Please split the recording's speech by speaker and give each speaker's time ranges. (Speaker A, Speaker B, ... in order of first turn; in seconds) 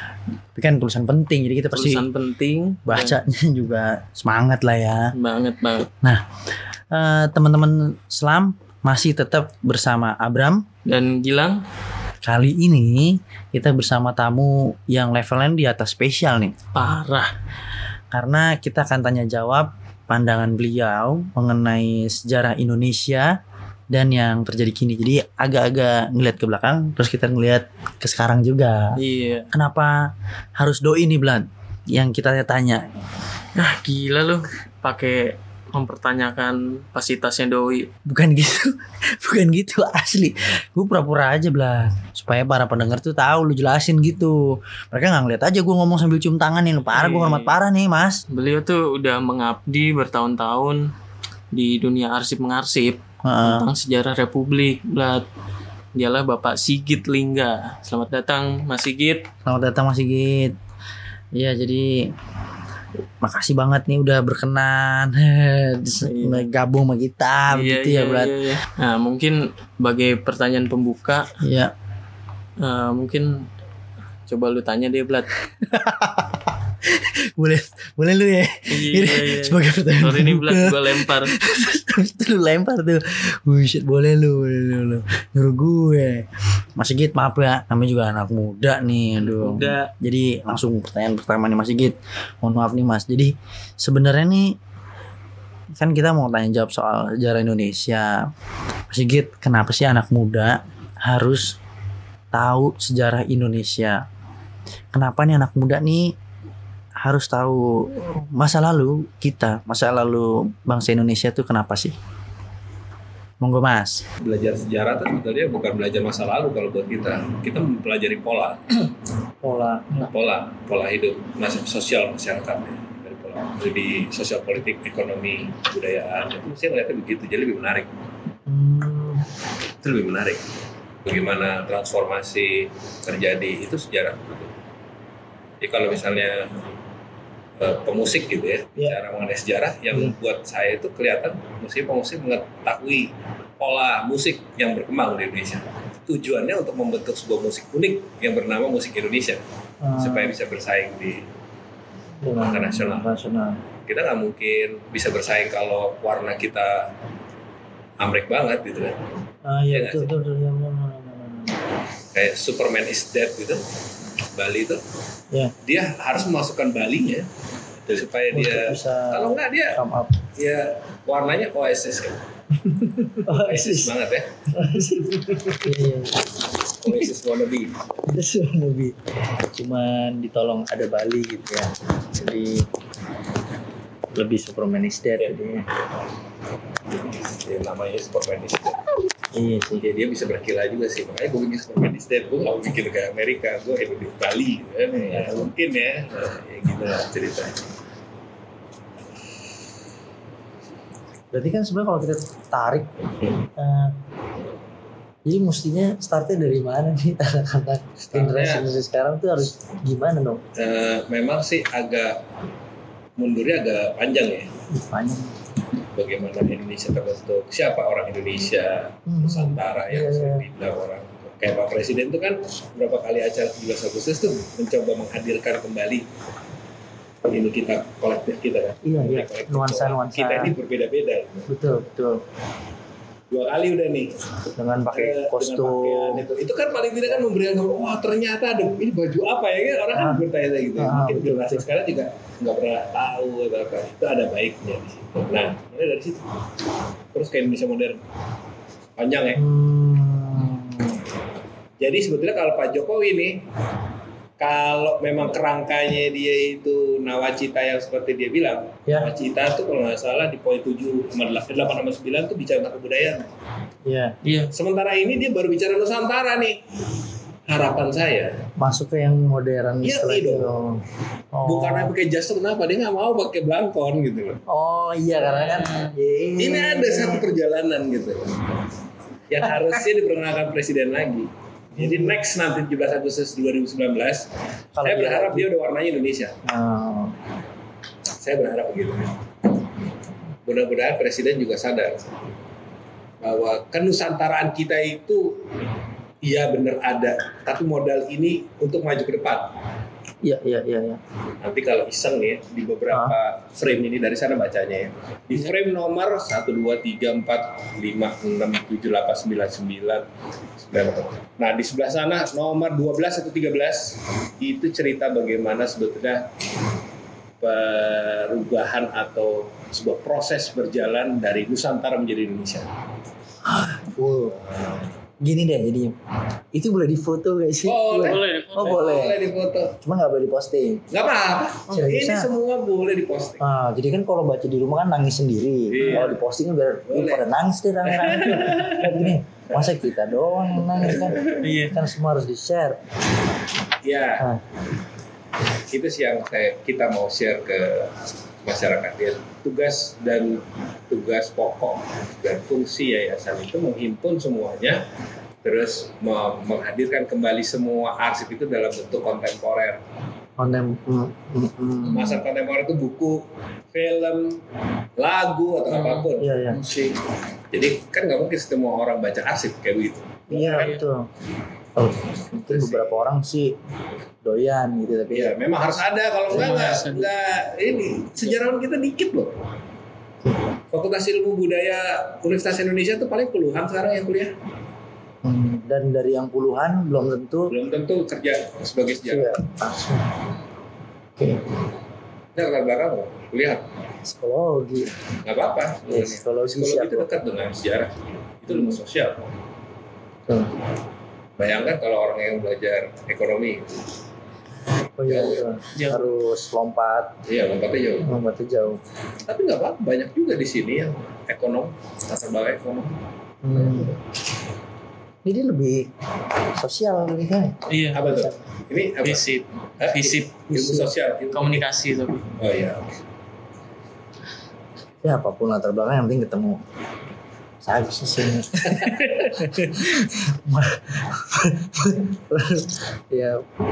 Speaker A: 0.6-2.0, 2.9-5.1, 6.9-10.7, 12.2-16.6, 18.1-23.4, 23.9-29.0, 29.5-32.9, 38.1-48.2, 53.2-53.7, 59.5-60.6, 61.3-62.1, 63.2-68.3, 71.4-71.7, 75.6-94.6, 95.7-98.3, 98.9-101.6, 102.3-104.0, 104.9-106.1, 107.0-112.0, 113.4-114.0, 119.4-119.9, 128.5-129.3, 149.8-150.3, 152.2-153.6, 159.4-161.6, 168.3-170.2, 172.7-173.9, 174.5-177.1, 178.1-182.7, 184.1-185.7, 189.3-189.8, 195.1-195.5, 201.3-204.0, 205.2-210.4, 214.7-215.4, 219.1-220.5, 228.8-230.5, 231.5-232.2, 234.6-236.3, 239.9-240.2, 240.8-241.7, 249.4-251.0, 263.9-264.1, 268.6-271.9, 274.5-277.4, 281.8-282.1, 284.8-285.5, 286.4-287.1, 300.2-301.0, 302.9-303.2, 323.4-324.4, 325.2-325.9, 326.5-329.2, 329.8-330.9, 331.7-332.3, 333.4-342.8, 360.4-362.2, 366.2-366.6, 370.3-371.1, 371.8-373.6, 374.2-375.6, 385.2-387.5, 389.0-390.2, 391.2-391.4, 394.1-395.0, 395.9-397.1, 398.5-398.8, 400.3-400.5, 405.0-407.2, 408.0-408.8, 413.4-413.9, 415.2-415.9, 416.5-418.3, 420.5-420.9, 425.0-426.6, 427.6-433.4
Speaker B: 1.7-3.2, 5.2-5.9, 10.9-11.6, 16.7-17.3, 29.0-29.5, 33.6-37.9, 46.9-47.6, 48.3-50.8, 51.5-55.2, 56.0-59.2, 66.0-66.5, 67.5-71.3, 72.6-73.5, 74.3-75.4, 78.7-81.4, 89.3-89.9, 264.2-264.5, 275.3-275.9, 328.0-329.0, 335.8-336.1, 341.3-341.9, 365.7-367.0, 370.5-370.8, 376.3-377.1, 405.8-406.1, 417.7-418.2, 419.0-420.3, 421.3-422.3, 428.7-429.1
Speaker C: 114.2-118.8, 120.0-127.9, 129.8-130.5, 131.0-134.5, 135.6-136.5, 137.6-149.4, 150.0-151.3, 152.4-153.1, 153.9-156.9, 158.0-159.0, 159.7-160.1, 162.1-163.6, 164.3-164.8, 165.6-167.3, 167.8-169.8, 170.4-172.2, 173.2-174.4, 176.8-177.8, 187.1-188.8, 189.8-197.7, 208.0-208.7, 210.6-212.2, 213.2-214.5, 215.9-226.1, 227.3-231.5, 233.3-234.2, 234.9-246.3, 247.1-248.0, 249.0-249.4, 251.8-253.4, 254.4-263.3, 264.5-266.6, 267.5-268.4, 269.8-270.5, 271.4-274.4, 276.4-278.6, 279.3-284.3, 284.8-286.4, 288.2-289.1, 290.5-292.1, 293.2-295.4, 296.2-299.5, 301.4-310.1, 310.6-316.3, 317.4-322.7, 324.5-324.8, 327.6-329.8, 330.9-333.4, 335.7-336.2, 336.9-337.3, 337.9-339.1, 340.9-341.4, 343.8-344.3, 345.7-354.8, 355.4-359.8, 361.8-364.4, 365.0-366.3, 367.5-370.7, 372.4-373.0, 375.1-379.4, 380.7-384.3, 387.5-389.4, 392.4-393.6, 395.2-399.3, 401.4-403.8, 405.1-405.5, 407.3-408.1, 409.2-413.0, 413.5-413.8, 417.9-419.2, 419.8-421.6, 422.4-422.9